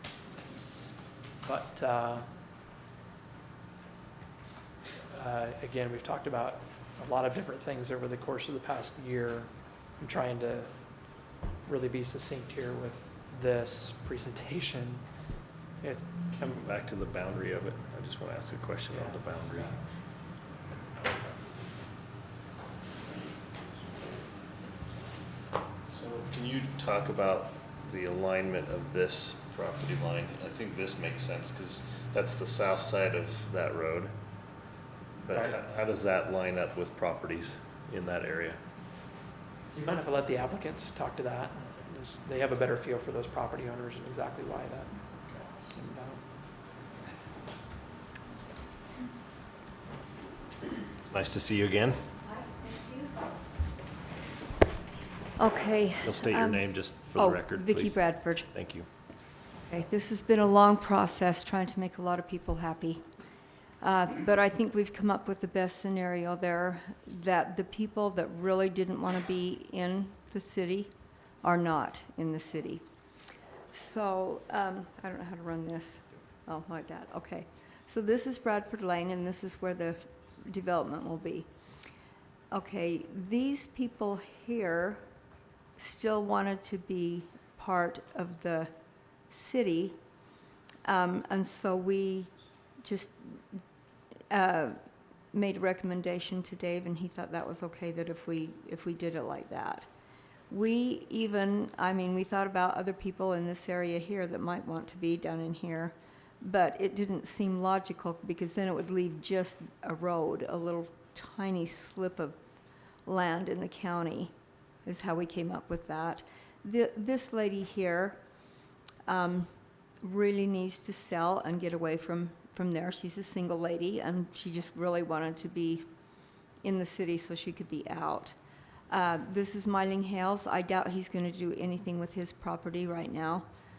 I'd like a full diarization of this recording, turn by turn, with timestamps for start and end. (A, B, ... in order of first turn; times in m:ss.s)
0:01.4-0:02.3 A
0:05.1-0:15.1 A
0:15.8-0:16.6 A
0:16.4-0:19.8 B
0:18.9-0:19.8 A
0:25.9-0:34.1 B
0:35.2-0:38.6 B
0:35.3-0:35.6 A
0:39.7-0:44.9 A
0:45.7-0:46.2 A
0:51.0-0:52.0 B
0:55.4-0:58.5 C
0:56.0-0:58.9 B
0:59.7-1:03.0 C
1:03.8-1:10.9 C
1:11.4-1:12.8 C
1:13.7-1:21.5 C
1:22.5-1:25.0 C
1:25.8-1:28.7 C
1:29.3-1:30.0 C
1:30.8-1:32.3 C
1:32.8-1:33.4 C
1:34.3-1:34.8 C
1:35.3-1:39.9 C
1:40.5-1:52.4 C
1:53.0-1:54.3 C
1:54.8-1:58.2 C
1:59.0-1:59.5 C
2:00.0-2:05.8 C
2:06.6-2:08.4 C
2:08.9-2:13.5 C